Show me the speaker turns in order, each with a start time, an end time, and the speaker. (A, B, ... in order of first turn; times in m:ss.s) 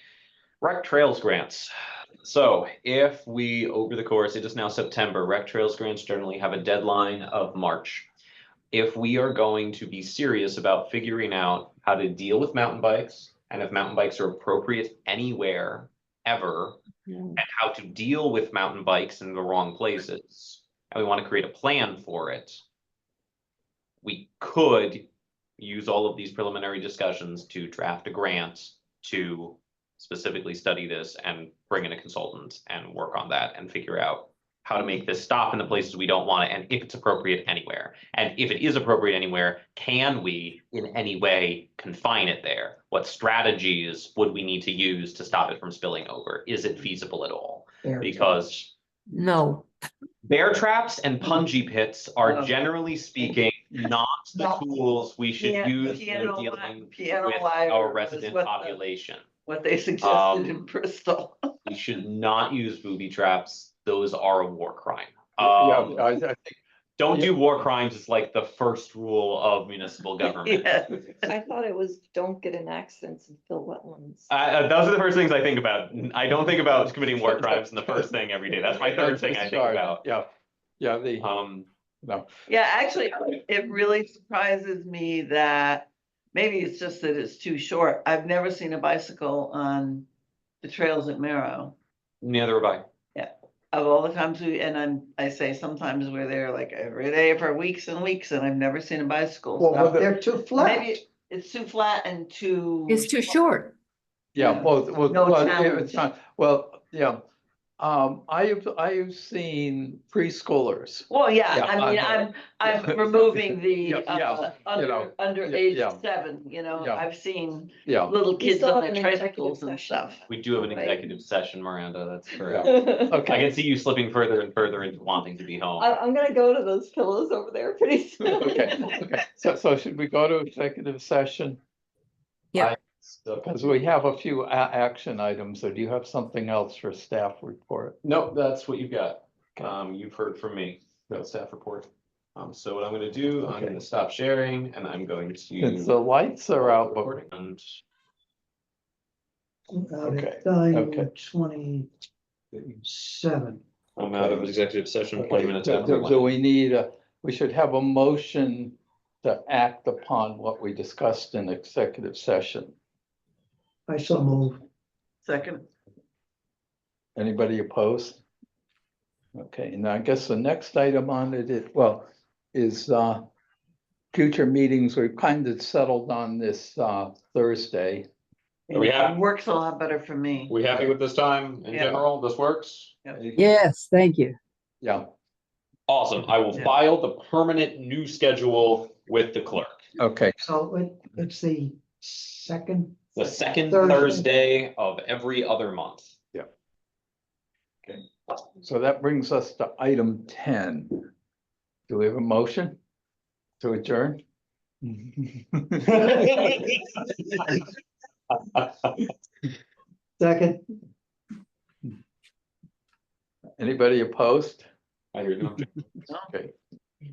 0:00.6-0:08.1 A
0:08.7-0:16.8 A
0:17.1-0:17.4 B
0:17.4-0:22.6 A
0:24.0-0:25.0 A
0:25.6-0:48.7 A
0:49.1-0:49.7 B
0:50.2-0:59.2 A
0:52.2-0:52.6 C
0:55.4-0:58.8 C
0:59.5-1:01.4 C
1:00.0-1:00.6 A
1:01.7-1:06.1 A
1:05.4-1:06.6 D
1:07.0-1:10.8 A
1:10.2-1:11.2 C
1:11.2-1:14.3 B
1:14.3-1:20.0 A
1:17.3-1:18.1 D
1:18.7-1:20.3 D
1:20.8-1:21.3 D
1:21.2-1:21.7 A
1:22.5-1:30.1 C
1:30.6-1:31.8 C
1:32.2-1:32.8 A
1:33.2-1:43.1 C
1:39.6-1:41.0 E
1:42.9-1:43.7 B
1:44.4-1:46.0 C
1:44.4-1:47.2 D
1:47.8-1:56.0 D
1:51.1-2:00.2 C
1:56.8-1:57.0 D
1:57.8-1:58.2 D
1:58.3-2:01.1 B
2:00.3-2:06.0 A
2:02.5-2:03.5 D
2:02.5-2:03.2 B
2:05.8-2:09.1 B
2:08.2-2:11.6 D
2:12.6-2:13.6 A
2:13.4-2:18.0 D
2:18.0-2:26.0 A
2:23.5-2:23.8 D
2:25.6-2:27.1 D
2:26.6-2:27.8 A
2:29.7-2:31.9 E
2:30.0-2:31.1 D
2:32.8-2:33.6 E
2:34.0-2:36.3 A
2:34.0-2:34.5 D
2:35.2-2:42.7 D
2:43.9-2:44.6 E
2:45.2-2:45.6 C
2:47.2-2:48.2 D
2:49.4-2:53.3 D
2:54.1-2:58.1 D
2:58.7-3:00.5 C
2:58.7-2:59.2 A
3:00.5-3:02.9 A
3:01.7-3:02.0 C
3:03.2-3:03.5 D
3:03.4-3:04.4 B
3:05.9-3:09.8 A
3:10.0-3:10.4 D
3:10.4-3:14.3 E
3:13.2-3:16.2 A
3:18.6-3:21.1 D
3:21.9-3:22.8 D
3:23.6-3:24.2 D
3:24.8-3:26.1 D
3:26.0-3:27.4 A
3:28.3-3:29.1 A
3:30.2-3:30.6 E
3:33.6-3:34.7 D
3:35.1-3:35.7 A